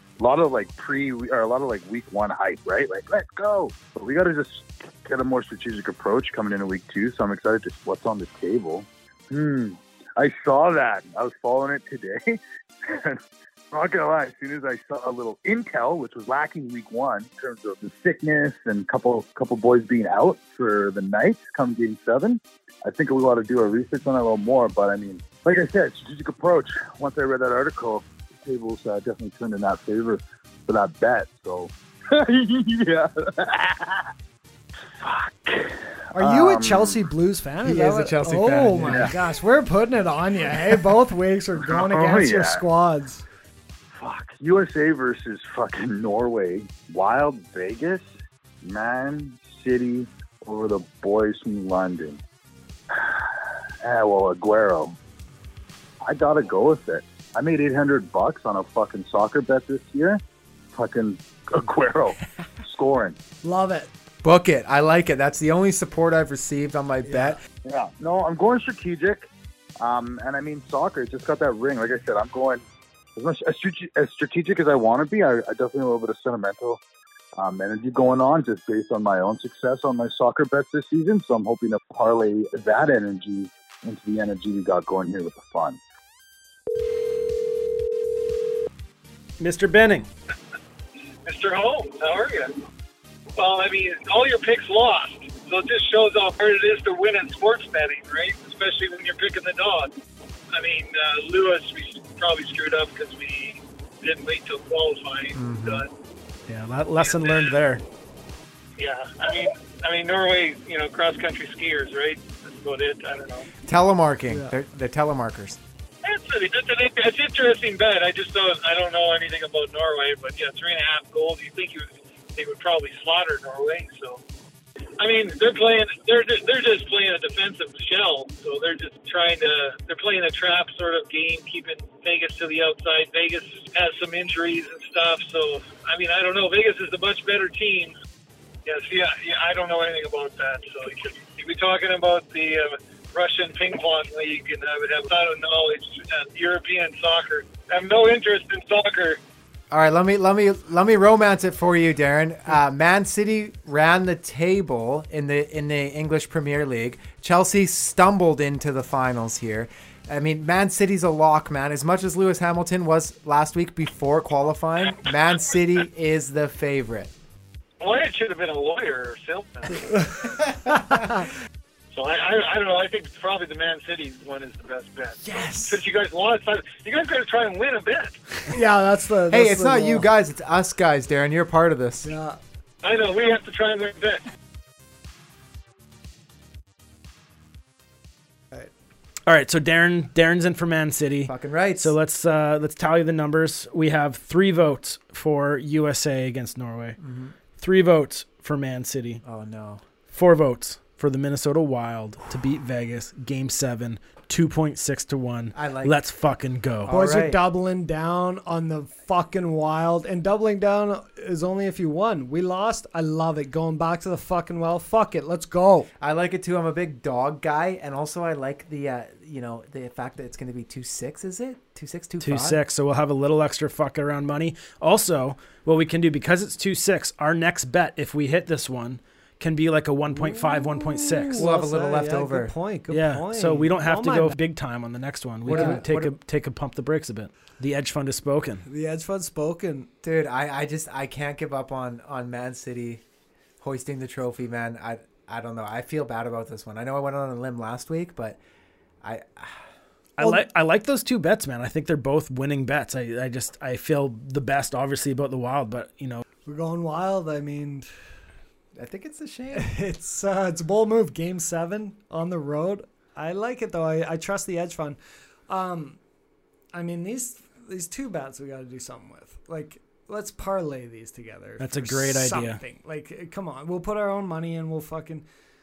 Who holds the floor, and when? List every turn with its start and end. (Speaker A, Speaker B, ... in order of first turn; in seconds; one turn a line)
Speaker A: 0.2-13.2
Speaker A: 13.7-34.0
Speaker A: 35.0-37.0
Speaker B: 36.1-43.2
Speaker C: 37.6-39.1
Speaker A: 38.9-39.1
Speaker A: 41.6-42.6
Speaker A: 44.0-48.1
Speaker A: 48.6-52.2
Speaker A: 52.9-55.0
Speaker A: 56.0-60.2
Speaker A: 60.7-63.1
Speaker B: 63.4-63.9
Speaker C: 64.2-67.4
Speaker B: 67.1-67.4
Speaker A: 67.6-69.3
Speaker A: 69.8-72.6
Speaker A: 73.2-76.8
Speaker A: 77.4-85.8
Speaker D: 89.4-90.1
Speaker E: 91.2-92.5
Speaker E: 93.4-99.9
Speaker E: 100.5-105.9
Speaker C: 105.3-105.8
Speaker D: 106.5-107.8
Speaker E: 107.1-107.5
Speaker E: 108.8-113.5
Speaker C: 113.7-115.6
Speaker E: 116.0-124.2
Speaker E: 125.0-137.9
Speaker E: 138.6-149.2
Speaker C: 149.7-167.1
Speaker E: 167.8-170.0
Speaker B: 170.9-171.3
Speaker E: 171.9-178.2
Speaker C: 175.2-175.8
Speaker B: 178.5-180.1
Speaker C: 179.3-182.1
Speaker B: 182.0-182.4
Speaker E: 182.8-184.2
Speaker D: 189.3-197.0
Speaker C: 191.2-191.9
Speaker C: 197.0-197.3
Speaker D: 197.6-199.2
Speaker C: 199.2-199.8
Speaker D: 200.1-206.9
Speaker C: 205.5-206.0
Speaker C: 206.8-207.4
Speaker B: 206.9-215.9
Speaker C: 216.0-222.6
Speaker D: 222.2-231.4
Speaker B: 230.2-234.3
Speaker C: 231.4-232.5
Speaker D: 232.9-238.7
Speaker B: 235.5-235.8
Speaker C: 235.5-236.1
Speaker B: 238.7-239.9
Speaker C: 240.0-243.0
Speaker C: 243.6-248.4
Speaker C: 249.0-249.6
Speaker D: 250.2-256.2
Speaker B: 256.4-257.9
Speaker C: 258.7-259.7
Speaker B: 259.6-266.0
Speaker B: 266.7-275.2
Speaker D: 271.6-272.6